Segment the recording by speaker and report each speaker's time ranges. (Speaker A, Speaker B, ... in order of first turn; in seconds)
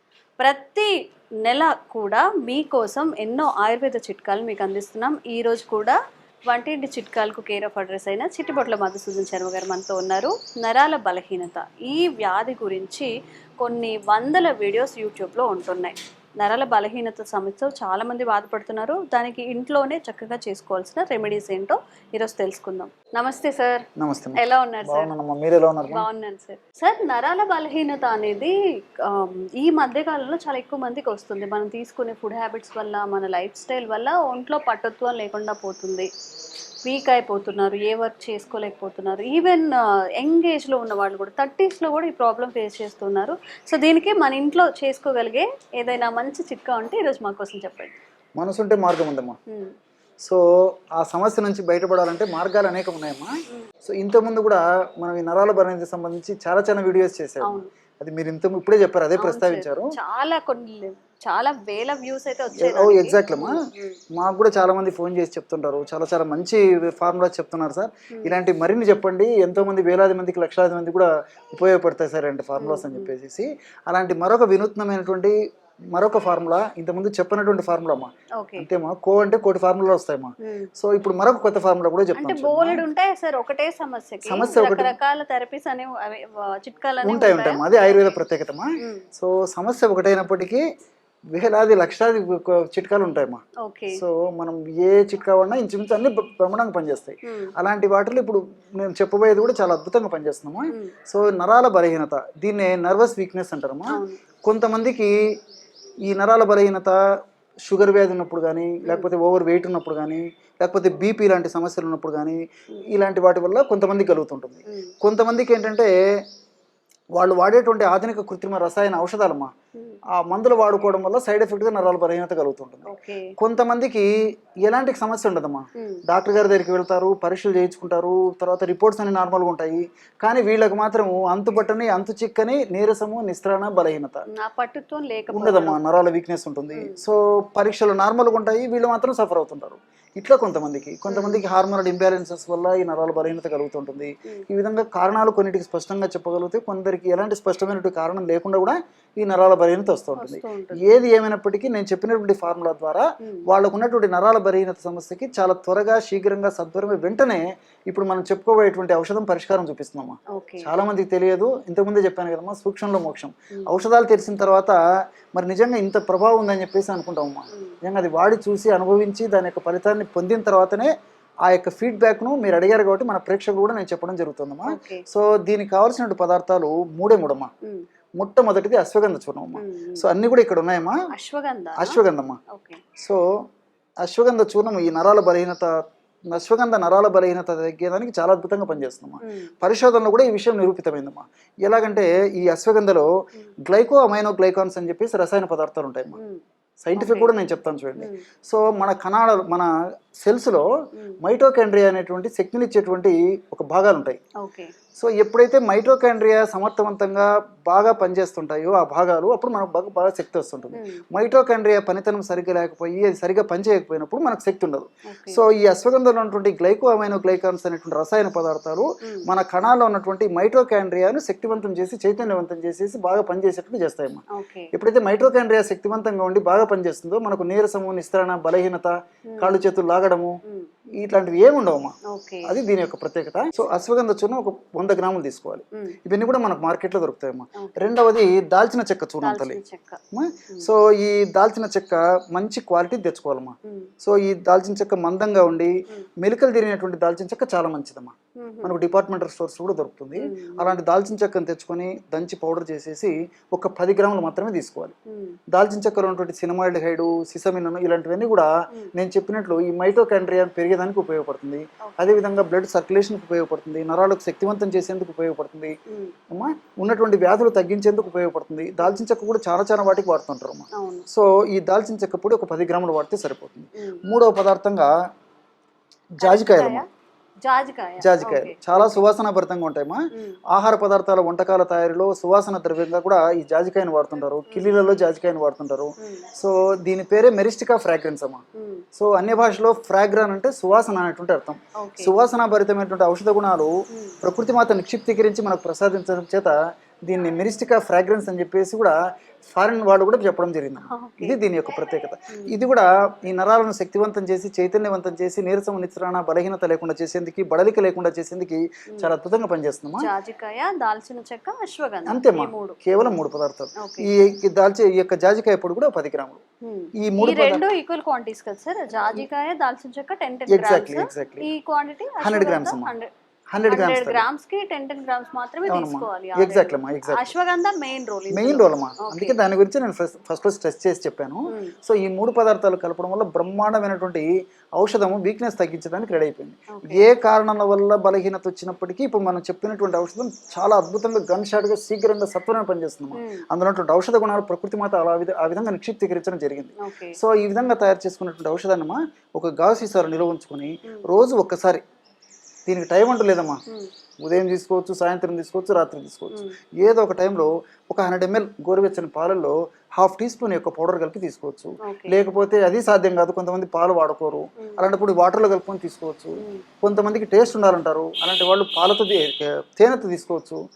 Speaker A: 0.4-0.9, 1.4-6.0, 6.5-13.1, 13.6-23.9, 24.4-25.1, 25.9-36.1, 36.9-48.0, 57.4-57.7, 59.2-64.0, 68.1-68.4, 72.6-73.1, 78.4-78.7, 80.4-80.7, 82.2-88.2, 93.6-94.0, 97.3-97.5, 103.9-104.2, 108.8-109.1, 122.9-123.3, 134.3-135.8, 141.1-141.4, 150.2-151.0, 160.3-160.7, 174.7-175.0, 179.6-180.1, 181.1-182.8, 189.2-189.5, 196.2-196.4, 197.0-197.3, 198.0-198.2, 204.4-204.7, 210.7-211.0, 215.1-215.4, 219.0-219.3, 224.3-224.7, 229.3-229.6, 232.1-232.6, 237.6-237.9, 239.2-240.0, 248.4-248.8, 250.2-250.8, 261.9-262.2, 265.9-266.1, 270.8-271.1, 276.2-276.9, 277.4-279.0, 284.5-284.7, 286.0-286.2, 288.6-288.9, 291.8-292.2, 293.9-294.2, 300.9-301.4, 310.0-312.8, 313.8-314.1, 316.6-323.1, 323.7-329.4, 336.7-337.1, 343.1-343.4, 346.8-347.2, 361.8-362.2, 366.4-366.6
Speaker B: 24.0-26.1, 48.4-49.4, 51.0-53.3, 53.8-59.9, 62.6-63.6, 64.2-75.4, 75.9-82.8, 84.3-84.9, 87.0-90.6, 91.3-93.4, 93.9-105.1, 106.1-107.0, 107.7-115.9, 117.2-119.5, 120.1-124.1, 124.7-134.2, 135.3-164.8, 165.3-170.9, 171.5-177.5, 178.2-181.0, 181.8-182.4, 184.0-185.7, 186.3-193.1, 193.7-196.2, 196.8-199.7, 200.2-200.7, 201.2-204.2, 205.0-230.4, 231.0-231.9, 232.5-239.6, 240.1-254.9, 255.5-265.7, 266.3-274.9, 276.2-276.8, 278.0-280.0, 280.5-288.4, 289.0-310.1, 312.1-316.4, 317.0-317.6, 320.5-321.5, 322.2-322.9, 323.5-324.3, 325.7-327.3, 328.3-351.8, 352.7-353.6, 354.2-370.6